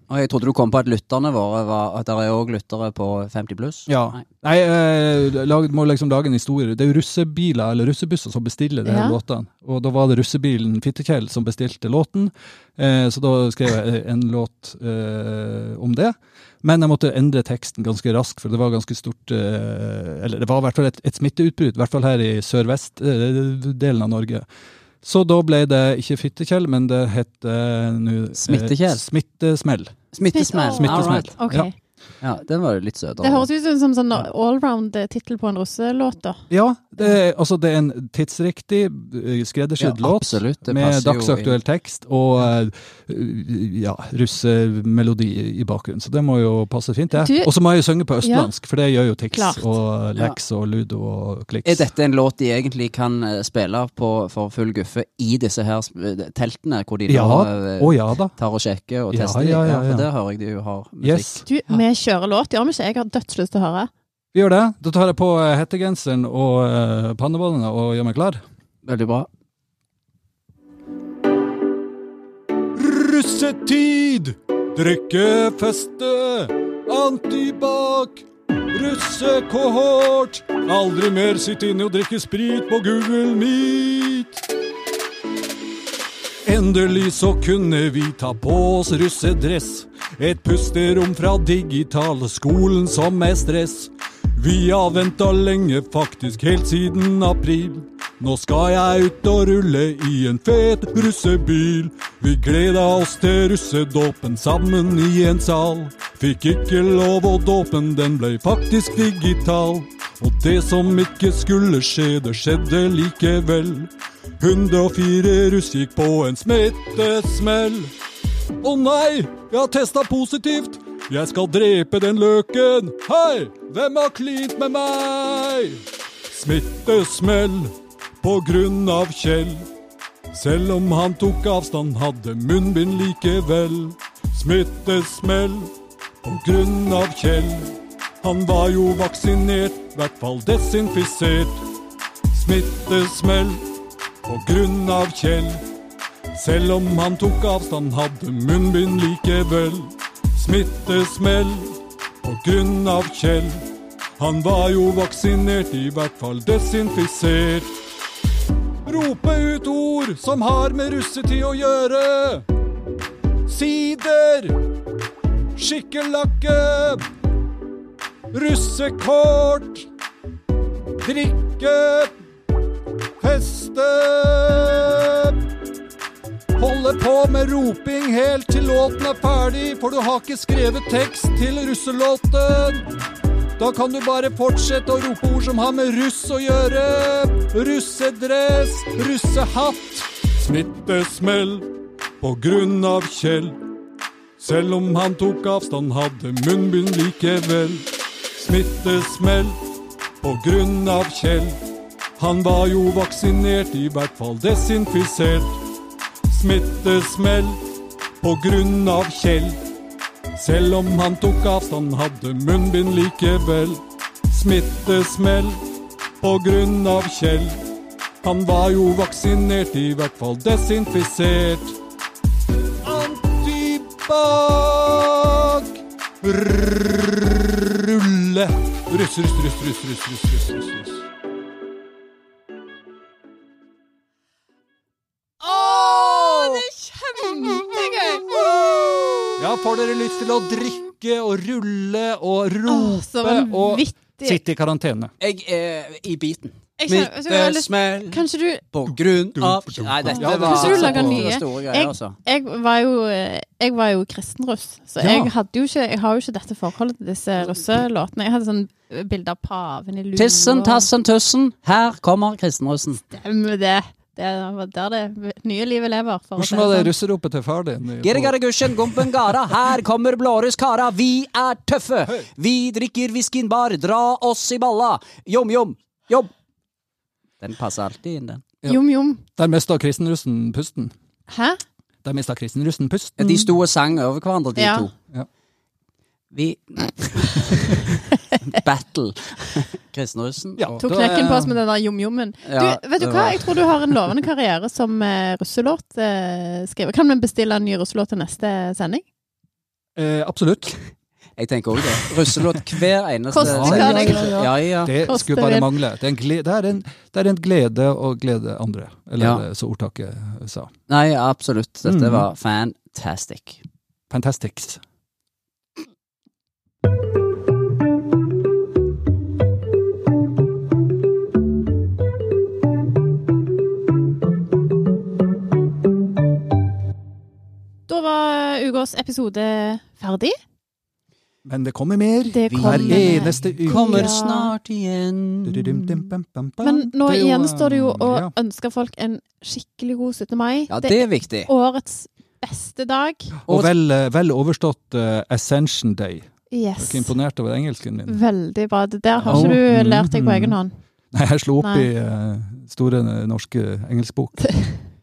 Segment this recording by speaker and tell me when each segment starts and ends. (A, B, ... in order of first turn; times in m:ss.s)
0:00.1-0:04.2 A
0:03.9-0:24.5 B
0:08.9-0:09.2 C
0:25.0-0:30.0 B
0:28.4-0:29.1 A
0:30.1-0:31.4 A
0:30.3-0:31.7 C
0:30.8-0:31.7 B
0:32.2-0:33.5 A
0:33.2-0:36.4 C
0:36.5-0:51.9 B
0:39.8-0:41.6 A
0:47.1-0:47.5 C
0:48.2-0:48.5 C
0:49.3-0:49.7 C
0:51.6-1:01.8 A
0:57.1-0:58.3 B
0:59.1-1:00.1 B
1:01.0-1:01.4 B
1:01.5-1:03.9 C
1:04.3-1:08.4 B
1:08.8-1:09.3 A
1:12.8-1:24.4 B
1:26.4-1:57.9 B
1:58.6-2:09.7 B
2:10.3-2:21.7 B
2:22.3-2:23.7 B
2:24.3-2:25.6 B
2:26.3-2:37.8 B
2:38.9-2:42.5 B
2:43.5-2:44.6 B
2:45.6-2:47.0 B
2:48.3-2:49.9 B
2:51.0-2:52.1 B
2:53.2-2:55.4 B
2:56.6-3:02.9 B
3:03.6-3:13.6 B
3:14.4-3:19.6 B
3:20.2-3:21.6 B
3:22.2-3:25.6 B
3:26.3-3:27.7 B
3:28.2-3:29.6 B
3:30.4-3:35.7 B
3:36.2-3:37.7 B
3:38.2-3:41.8 B
3:42.8-3:51.1 B
3:55.6-3:56.3 B
3:55.8-3:56.6 A
3:56.5-3:58.6 C
3:57.8-3:59.2 A
3:59.4-4:05.1 B
4:02.7-4:04.4 C
4:05.2-4:12.2 A
4:06.8-4:08.7 C
4:09.3-4:11.3 B
4:10.1-4:20.9 C
4:15.0-4:15.3 A
4:20.2-4:23.0 A
4:23.1-4:26.9 C
4:26.4-4:29.3 B
4:28.0-4:36.3 A
4:37.4-4:38.4 A
4:38.7-4:39.2 C
4:39.4-4:40.9 B
4:41.3-4:41.6 C
4:42.0-4:43.5 B
4:43.2-4:44.9 A
4:44.6-4:44.9 C
4:46.3-4:50.8 A
4:50.6-4:51.6 B
4:50.8-4:59.0 C
4:52.4-4:54.0 A
5:00.0-5:00.8 B
5:01.4-5:04.9 A
5:03.3-5:04.5 C
5:03.3-5:10.7 B
5:05.0-5:05.7 C
5:09.2-5:09.4 A
5:10.9-5:13.6 A
5:11.8-5:12.3 B
5:14.1-5:14.8 B
5:27.9-5:30.4 C
5:31.4-5:34.2 B
5:32.3-5:34.5 C
5:32.5-5:36.1 A
5:35.4-5:38.3 B
5:36.6-5:43.4 C
5:40.7-5:41.5 A
5:43.5-5:48.2 B
5:43.5-5:43.7 A
5:46.5-5:47.1 C
5:48.1-5:50.8 C
5:49.2-5:49.6 A
5:49.3-5:50.6 B
5:51.1-5:54.5 B
5:51.6-5:51.9 C